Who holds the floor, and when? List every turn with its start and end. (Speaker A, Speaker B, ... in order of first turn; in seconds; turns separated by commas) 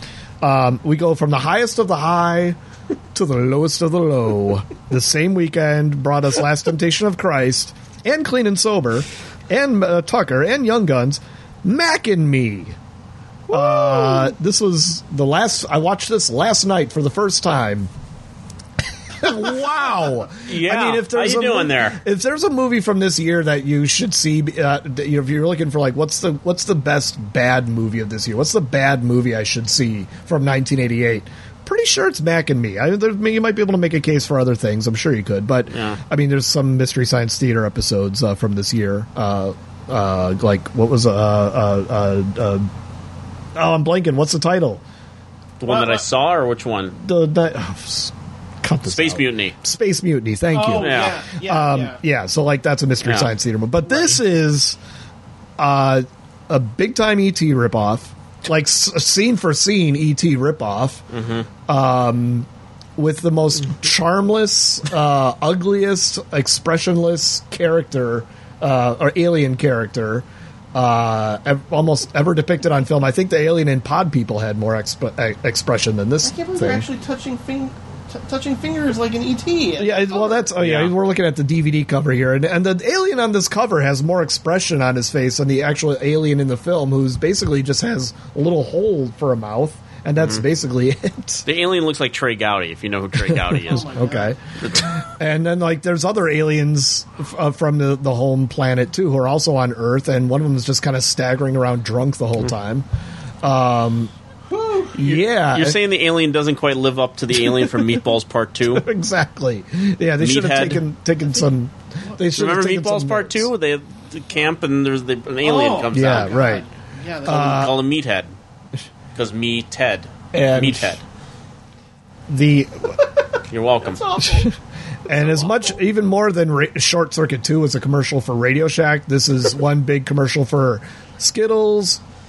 Speaker A: 0.4-2.6, Speaker A: 3.1-12.8, Speaker B: 13.5-14.3, Speaker A: 13.5-17.9, Speaker A: 19.2-42.7, Speaker C: 20.5-22.0, Speaker C: 35.7-36.0, Speaker A: 43.6-44.8, Speaker C: 45.6-47.0, Speaker B: 45.7-46.0, Speaker A: 47.0-54.8, Speaker C: 48.9-49.6, Speaker B: 50.5-52.0, Speaker C: 50.8-51.1, Speaker C: 53.0-53.3, Speaker B: 53.9-54.2, Speaker A: 55.6-61.0, Speaker C: 61.1-61.5, Speaker A: 61.7-76.9, Speaker B: 76.2-80.5, Speaker A: 79.8-91.5, Speaker C: 80.6-80.9, Speaker C: 90.2-90.4, Speaker C: 91.5-93.8, Speaker A: 93.2-102.9, Speaker B: 93.7-94.3, Speaker C: 94.6-94.9, Speaker A: 103.4-104.1, Speaker B: 104.5-105.0, Speaker A: 105.0-105.8, Speaker C: 105.0-108.8, Speaker A: 107.4-107.8, Speaker A: 108.7-113.5, Speaker C: 110.2-110.8, Speaker C: 112.4-116.4, Speaker B: 115.4-117.6, Speaker A: 115.9-116.7, Speaker A: 117.2-117.8, Speaker C: 117.3-118.3, Speaker C: 119.2-121.0, Speaker A: 120.3-121.0, Speaker A: 122.3-123.0, Speaker C: 123.5-124.0, Speaker B: 123.9-124.5, Speaker A: 125.1-132.0, Speaker B: 125.1-125.8